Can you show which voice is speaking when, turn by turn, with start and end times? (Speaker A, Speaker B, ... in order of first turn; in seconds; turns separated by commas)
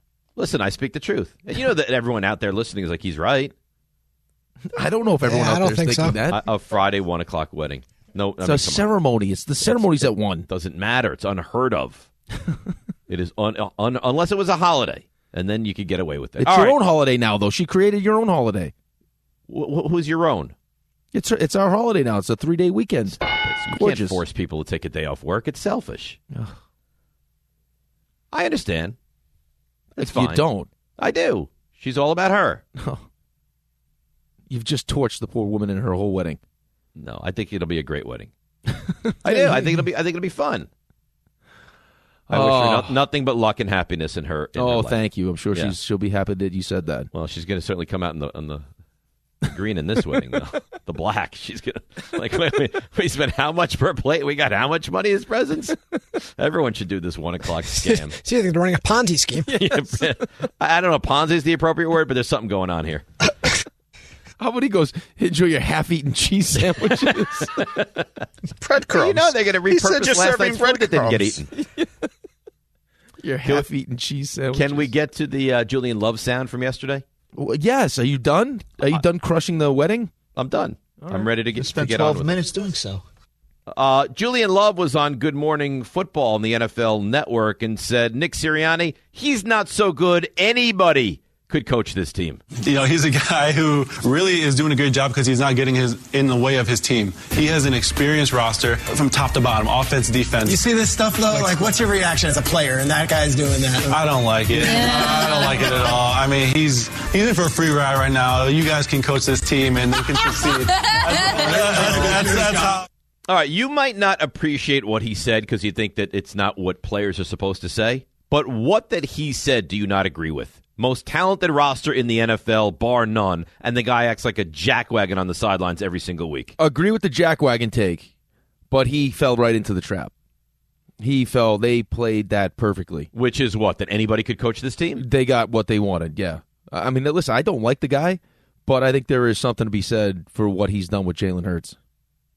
Speaker A: 0.4-3.5, Speaker B: 4.7-6.4, Speaker C: 5.2-6.2, Speaker A: 6.3-8.9, Speaker B: 8.4-10.4, Speaker A: 9.6-12.1, Speaker A: 13.1-16.8, Speaker B: 16.4-18.7, Speaker A: 19.5-20.5, Speaker B: 21.1-23.2, Speaker A: 23.2-26.2, Speaker B: 23.7-24.2, Speaker A: 28.3-28.9, Speaker B: 30.0-30.7, Speaker A: 30.0-30.4, Speaker A: 31.0-32.6, Speaker B: 32.8-33.0, Speaker B: 34.5-36.4, Speaker A: 37.0-38.3, Speaker B: 38.8-39.6, Speaker A: 39.2-40.7, Speaker B: 42.3-42.9, Speaker A: 42.3-45.0, Speaker B: 44.5-47.1, Speaker A: 47.1-48.6, Speaker A: 49.4-55.8, Speaker A: 56.4-58.1, Speaker C: 57.7-59.5, Speaker A: 59.5-63.0, Speaker B: 64.4-67.5, Speaker A: 67.0-68.0, Speaker D: 68.6-71.4, Speaker A: 68.9-71.5, Speaker B: 73.2-74.9, Speaker A: 74.5-77.0, Speaker B: 77.3-80.1, Speaker A: 80.3-82.4, Speaker D: 81.5-83.0, Speaker A: 83.7-92.4, Speaker E: 92.6-100.6, Speaker F: 100.5-103.9, Speaker E: 101.3-101.6, Speaker E: 103.9-112.8, Speaker F: 104.5-105.2, Speaker F: 111.5-112.7, Speaker A: 113.3-126.5, Speaker B: 126.6-128.1, Speaker B: 128.7-130.1, Speaker B: 131.0-133.1, Speaker A: 133.1-135.0, Speaker B: 135.0-141.8